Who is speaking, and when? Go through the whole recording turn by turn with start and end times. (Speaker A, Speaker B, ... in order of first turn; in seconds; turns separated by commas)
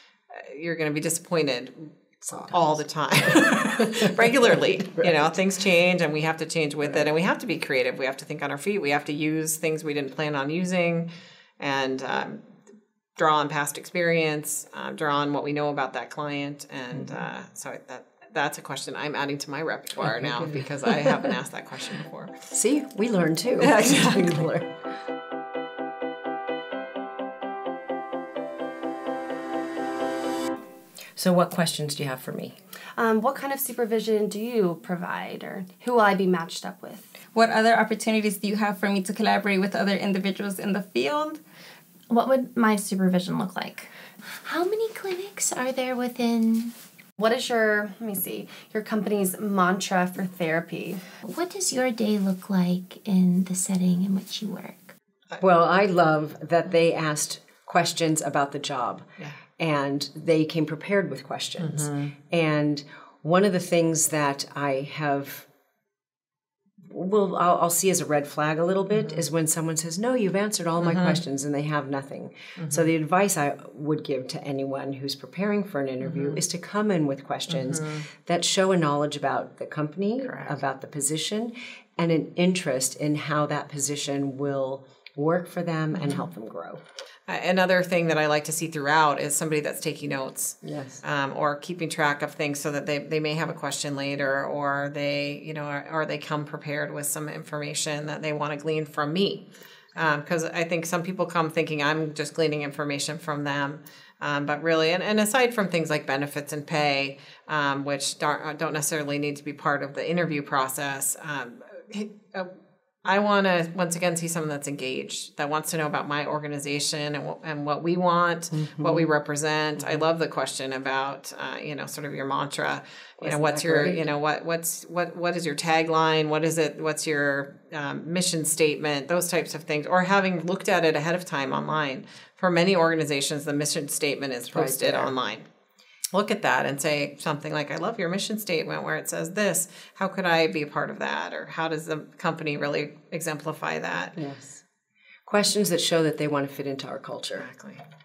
Speaker A: 0.3-11.1, Speaker B: 2.2-5.4, Speaker A: 11.6-12.4, Speaker A: 13.2-22.4, Speaker B: 16.9-17.2, Speaker B: 20.0-21.3, Speaker B: 22.5-24.7, Speaker A: 23.6-24.4, Speaker B: 31.2-32.6, Speaker C: 33.0-37.1, Speaker D: 37.3-41.4, Speaker C: 42.1-43.9, Speaker E: 44.4-46.7, Speaker C: 47.2-51.0, Speaker E: 51.2-54.9, Speaker B: 55.4-65.5, Speaker A: 61.6-62.1, Speaker B: 66.8-86.8, Speaker A: 70.8-71.2, Speaker A: 72.6-72.9, Speaker A: 76.0-76.4, Speaker A: 77.5-78.0, Speaker A: 80.2-80.6, Speaker A: 85.9-86.2, Speaker A: 87.3-112.5, Speaker B: 90.6-91.0, Speaker A: 113.0-135.4, Speaker B: 118.5-119.1, Speaker B: 123.2-124.1, Speaker B: 134.5-135.1, Speaker A: 136.1-144.2, Speaker B: 144.2-144.6, Speaker B: 145.3-147.5, Speaker A: 147.4-147.8